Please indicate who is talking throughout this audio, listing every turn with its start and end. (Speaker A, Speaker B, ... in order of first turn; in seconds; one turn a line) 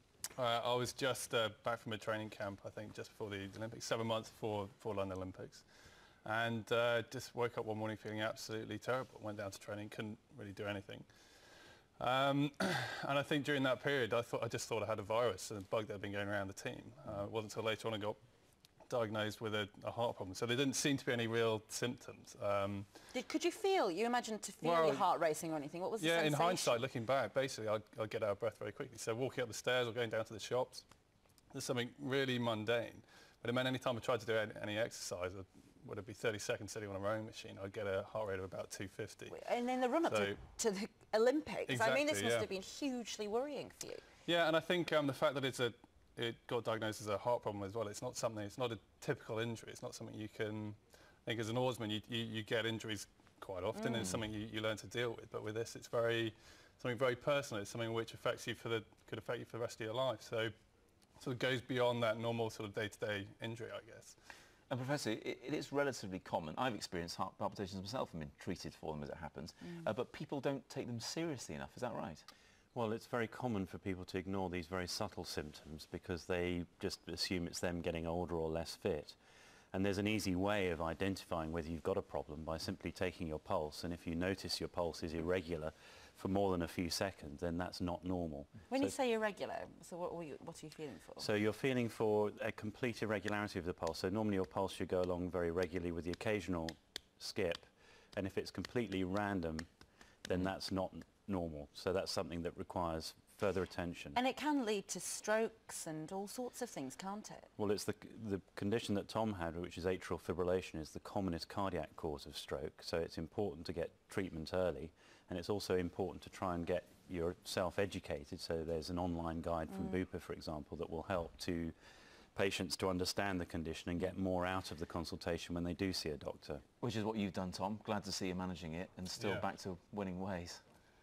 Speaker A: 0.3-5.6
Speaker A: 6.2-11.1
Speaker A: 12.0-18.2
Speaker A: 18.9-22.9
Speaker B: 23.1-26.8
Speaker A: 24.6-25.1
Speaker A: 26.0-30.8
Speaker A: 31.5-39.4
Speaker B: 39.3-44.0
Speaker A: 40.1-40.4
Speaker A: 41.7-42.5
Speaker A: 44.2-60.5
Speaker B: 53.8-54.1
Speaker A: 61.2-64.2
Speaker C: 64.7-72.2
Speaker D: 72.7-79.2
Speaker D: 79.7-88.9
Speaker B: 88.7-91.3
Speaker D: 91.2-99.7
Speaker D: 100.2-104.2
Speaker B: 104.1-107.5
Speaker D: 107.6-121.7
Speaker D: 122.3-126.6
Speaker C: 126.8-130.6
Speaker A: 129.2-129.5